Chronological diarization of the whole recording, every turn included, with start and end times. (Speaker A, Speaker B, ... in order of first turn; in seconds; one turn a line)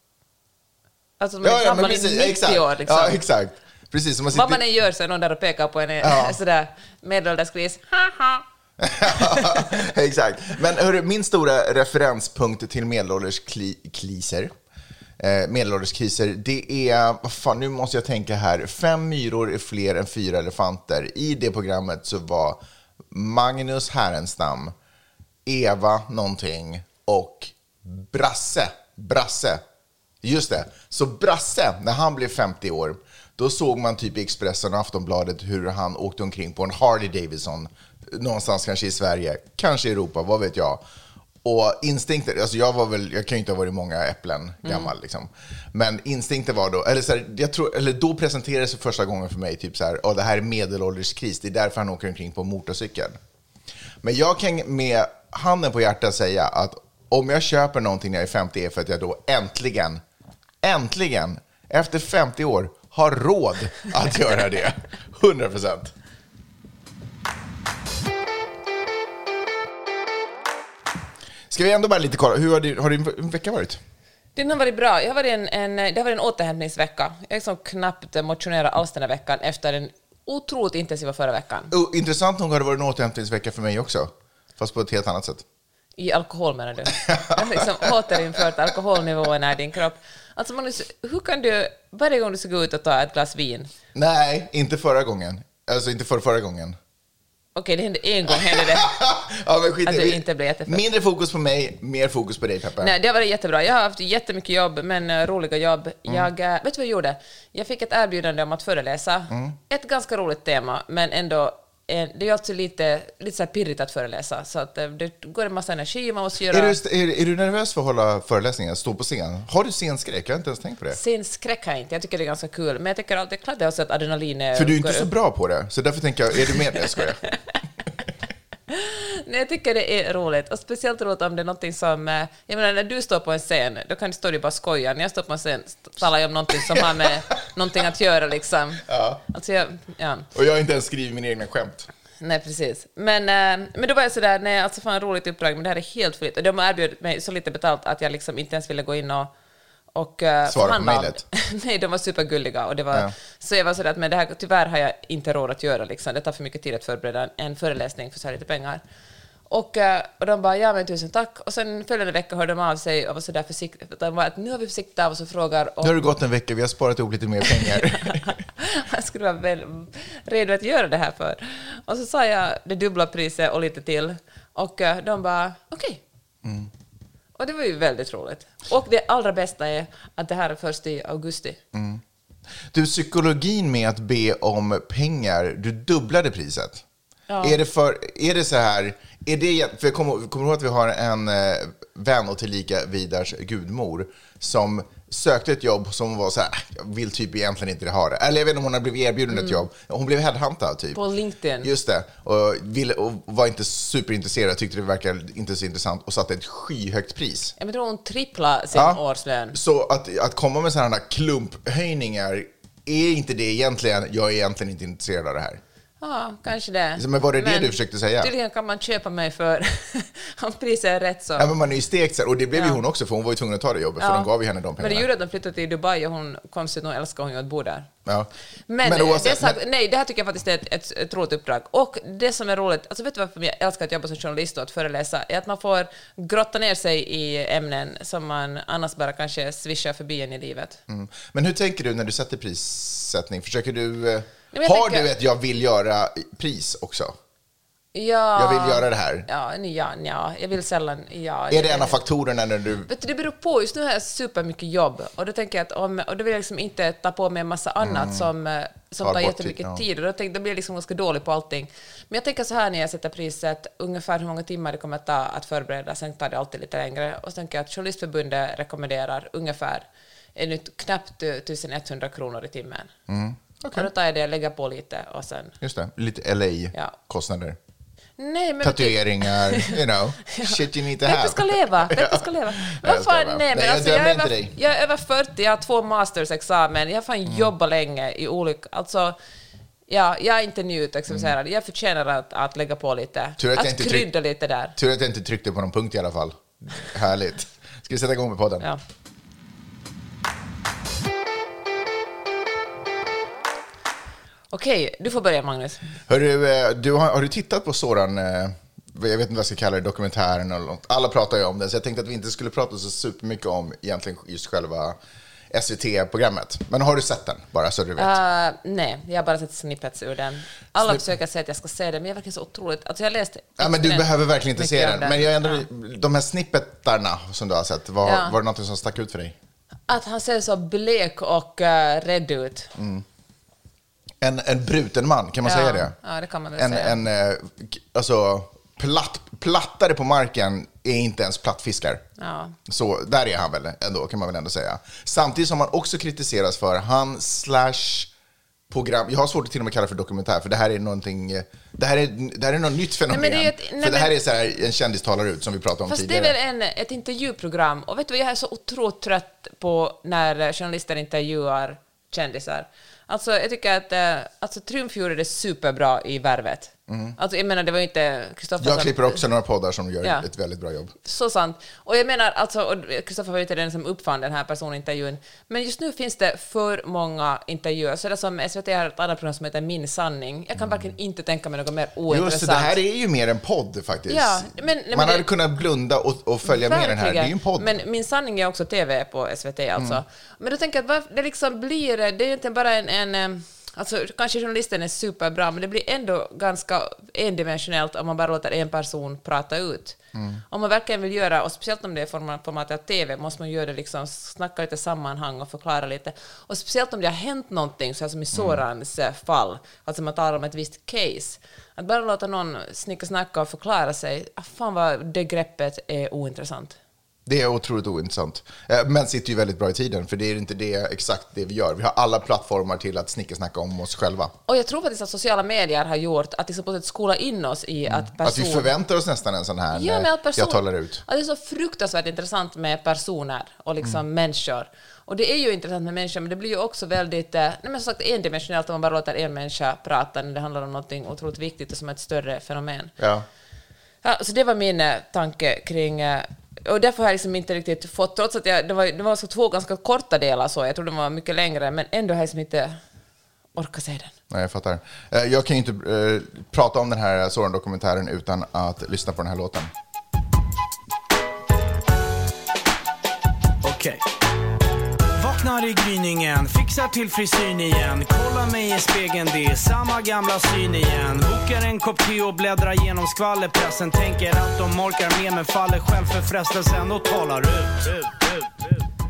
Speaker A: 1.2-3.2
Speaker B: 1.4-4.6
Speaker A: 4.3-8.4
Speaker B: 6.0-6.4
Speaker B: 8.8-14.5
Speaker A: 9.0-9.8
Speaker B: 15.2-22.6
Speaker B: 23.1-24.7
Speaker B: 25.4-29.6
Speaker B: 30.2-40.8
Speaker B: 41.4-53.2
Speaker A: 44.6-44.9
Speaker B: 54.0-60.0
Speaker B: 60.6-65.9
Speaker B: 71.5-73.8
Speaker A: 74.3-81.7
Speaker B: 81.7-85.5
Speaker A: 86.0-93.7
Speaker B: 87.1-87.7
Speaker B: 93.9-96.8
Speaker A: 97.5-99.0
Speaker B: 98.3-102.9
Speaker A: 99.8-100.8
Speaker A: 102.8-116.8
Speaker B: 109.3-109.6
Speaker B: 116.5-121.0
Speaker A: 120.9-125.1
Speaker B: 124.5-127.2
Speaker A: 128.7-140.3
Speaker B: 136.7-137.0
Speaker B: 138.9-139.2
Speaker B: 140.3-141.9
Speaker A: 142.2-149.3
Speaker A: 149.9-158.8
Speaker B: 150.5-151.2
Speaker A: 159.5-166.1
Speaker B: 165.8-168.3
Speaker A: 167.5-176.0
Speaker B: 176.4-176.7
Speaker A: 177.4-181.6
Speaker B: 181.7-182.0
Speaker B: 182.7-186.8
Speaker A: 187.3-187.6
Speaker B: 187.4-201.0
Speaker A: 199.3-199.6
Speaker A: 200.9-201.7
Speaker B: 201.6-207.6
Speaker A: 207.6-209.6
Speaker B: 208.7-209.0
Speaker B: 209.5-215.6
Speaker A: 216.0-221.5
Speaker B: 217.0-218.3
Speaker B: 221.4-225.1
Speaker A: 224.0-227.9
Speaker A: 228.7-240.8
Speaker B: 228.8-229.6
Speaker B: 240.9-247.2
Speaker A: 244.5-245.1
Speaker A: 247.9-252.0
Speaker B: 248.4-249.3
Speaker B: 251.5-252.9
Speaker A: 252.9-272.9
Speaker B: 257.8-258.3
Speaker B: 259.0-259.8
Speaker B: 273.1-273.9
Speaker A: 273.7-275.6
Speaker B: 275.6-277.6
Speaker A: 278.2-289.2
Speaker B: 278.6-284.5
Speaker A: 289.9-294.8
Speaker B: 293.4-294.1
Speaker B: 294.8-298.7
Speaker A: 304.5-305.9
Speaker B: 306.1-315.0
Speaker B: 315.5-318.2
Speaker A: 318.0-325.6
Speaker B: 323.6-329.4
Speaker A: 328.0-328.4
Speaker A: 329.9-332.7
Speaker B: 332.8-333.1
Speaker B: 334.2-336.0
Speaker A: 335.4-337.0
Speaker B: 336.6-342.0
Speaker A: 342.2-342.6
Speaker B: 342.7-348.1
Speaker B: 348.7-356.3
Speaker A: 353.1-354.1
Speaker A: 355.9-369.2
Speaker B: 366.9-367.2
Speaker B: 368.6-370.9
Speaker A: 371.0-382.7
Speaker B: 380.6-380.9
Speaker B: 382.1-387.8
Speaker A: 384.1-385.3
Speaker A: 386.4-400.0
Speaker B: 400.1-400.4
Speaker A: 400.5-416.8
Speaker B: 408.3-408.6
Speaker B: 417.3-424.3
Speaker A: 424.5-428.7
Speaker B: 427.9-431.0
Speaker A: 429.7-442.9
Speaker B: 443.0-443.3
Speaker A: 444.0-452.8
Speaker A: 453.6-454.1
Speaker B: 454.3-459.7
Speaker C: 463.6-464.0
Speaker C: 465.1-478.5